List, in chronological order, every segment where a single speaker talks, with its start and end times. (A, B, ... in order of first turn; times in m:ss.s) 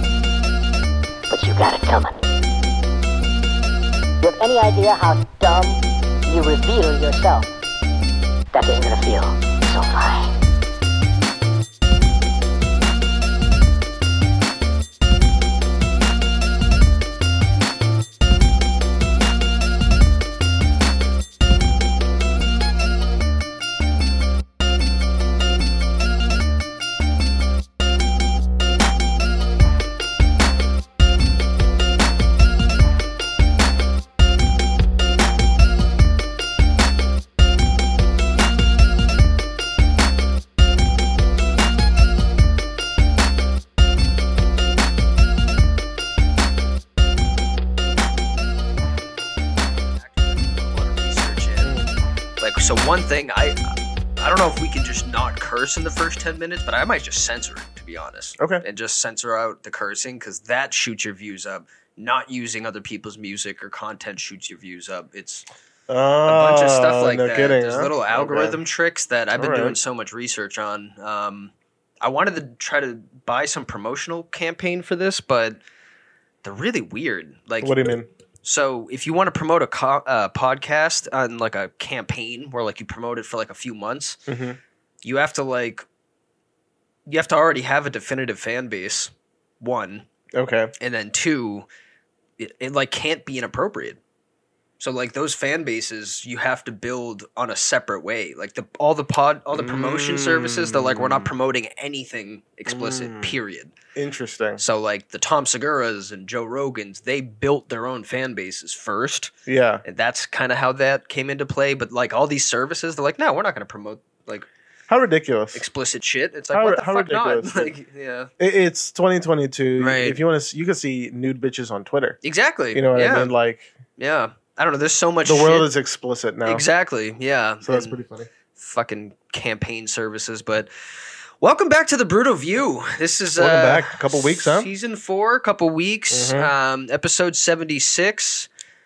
0:01.3-0:02.2 A
0:04.2-0:07.5 A
0:08.5-0:10.3 A
0:49.9-0:51.8 B
0:51.6-0:51.9 C
0:52.4-1:05.4 B
0:58.4-0:58.6 C
1:05.9-1:08.6 C
1:06.2-1:15.6 B
1:09.3-1:09.8 C
1:16.4-1:24.2 B
1:17.6-1:18.1 C
1:24.3-1:24.6 C
1:25.0-1:25.8 B
1:27.1-1:30.0 B
1:30.3-1:30.7 C
1:30.8-1:31.7 B
1:32.4-1:34.0 B
1:34.8-1:43.7 B
1:39.5-1:41.3 C
1:42.7-1:43.4 C
1:43.9-1:44.6 C
1:44.6-1:49.3 B
1:49.4-1:49.8 C
1:49.8-1:54.5 B
1:54.9-1:55.6 C
1:55.5-1:58.3 B
1:56.5-1:57.7 C
1:58.4-2:02.2 C
1:59.8-2:00.2 B
2:02.2-2:03.3 B
2:02.7-2:03.7 C
2:04.0-2:05.7 B
2:05.2-2:06.6 C
2:06.4-2:08.0 B
2:07.6-2:08.3 C
2:08.5-2:10.7 B
2:11.4-2:18.5 B
2:13.4-2:14.7 C
2:16.1-2:16.5 C